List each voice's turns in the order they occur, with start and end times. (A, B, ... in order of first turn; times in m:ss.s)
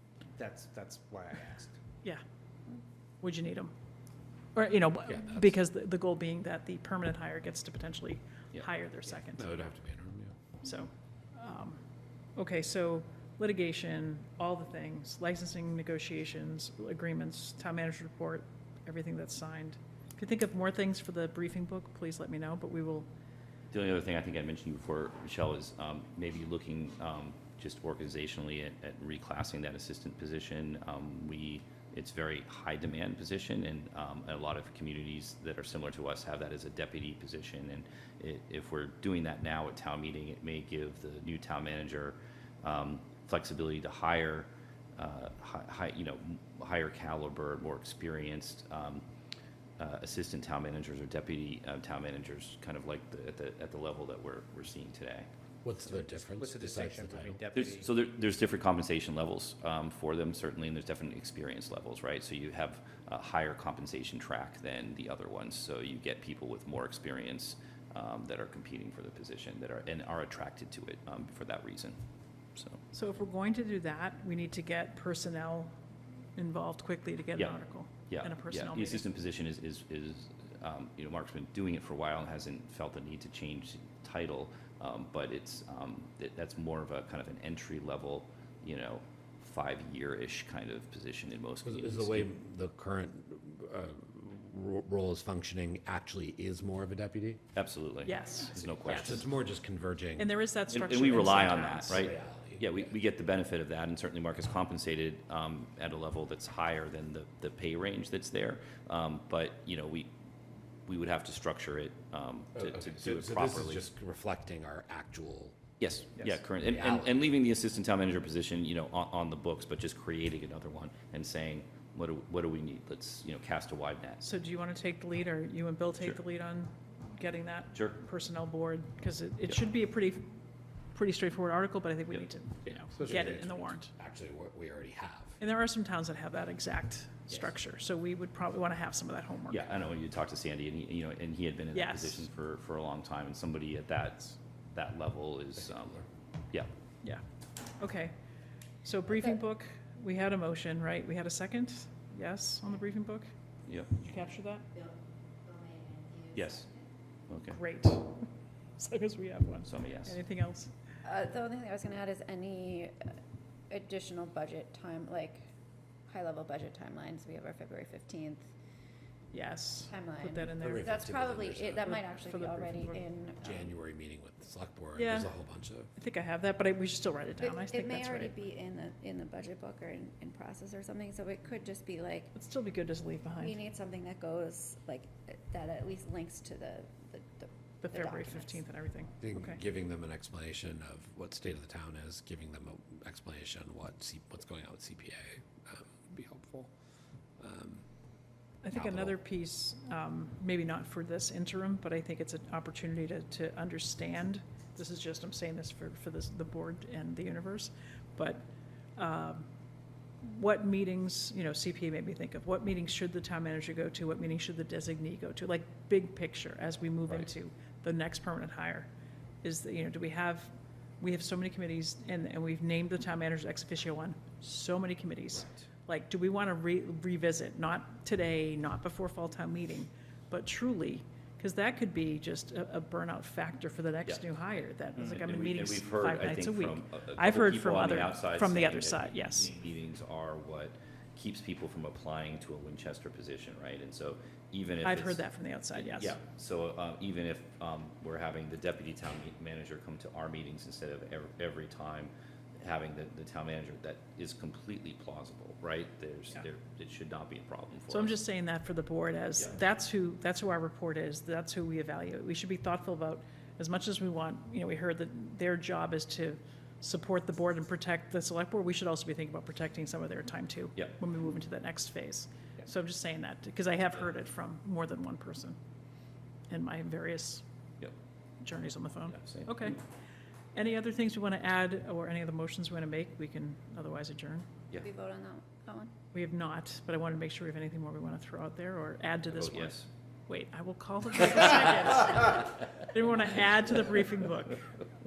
0:00.3-0:01.8 A
0:03.2-0:03.7 B
0:04.5-0:09.5 B
0:05.1-0:05.6 C
0:09.2-0:10.4 C
0:10.6-0:11.8 B
0:12.4-0:23.1 B
0:23.7-0:49.0 D
0:49.8-0:55.3 D
0:55.6-0:57.4 C
0:55.8-0:57.9 A
0:57.5-1:12.0 D
1:12.9-1:15.7 B
1:16.4-1:19.0 B
1:18.1-1:32.3 D
1:31.6-1:37.4 C
1:37.5-1:39.3 D
1:38.0-1:39.2 B
1:38.8-1:40.3 C
1:40.2-1:42.1 B
1:40.7-1:50.1 D
1:41.9-1:42.8 C
1:50.9-1:53.8 D
1:52.6-1:55.6 C
1:55.8-2:04.2 D
1:56.6-1:57.2 C
2:04.2-2:10.3 B
2:10.9-2:13.9 B
2:12.9-2:15.4 C
2:15.4-2:19.7 B
2:19.5-2:26.7 D
2:21.7-2:22.2 B
2:27.8-2:28.1 B
2:28.8-2:33.3 B
2:33.6-2:34.0 D
2:34.0-2:34.7 B
2:35.5-2:36.3 E
2:36.3-2:36.7 D
2:37.3-2:37.6 D
2:37.5-2:40.7 B
2:39.6-2:40.2 D
2:41.0-2:43.1 E
2:43.7-2:45.5 E
2:46.1-2:48.5 E
2:49.3-2:51.0 B
2:49.9-2:53.7 E
2:50.6-2:51.8 C
2:51.8-2:53.0 B
2:53.4-2:55.9 C
2:55.0-2:55.3 B
2:56.0-2:58.4 B
2:57.4-3:02.3 E
3:02.3-3:03.6 B
3:03.4-3:08.6 E
3:07.8-3:09.6 B
3:09.2-3:16.7 C
3:17.4-3:17.8 C
3:18.6-3:29.5 B
3:18.7-3:19.1 C
3:30.2-3:38.9 B
3:39.4-3:59.5 B
3:55.0-4:05.2 D
4:04.8-4:06.2 B
4:05.7-4:18.2 D
4:17.9-4:35.6 B
4:36.5-4:37.4 B
4:38.4-4:39.8 B
4:39.1-4:39.7 D
4:40.5-4:44.5 B
4:44.8-4:45.9 E
4:46.1-4:49.8 B
4:49.3-4:49.9 D
4:50.3-4:54.6 B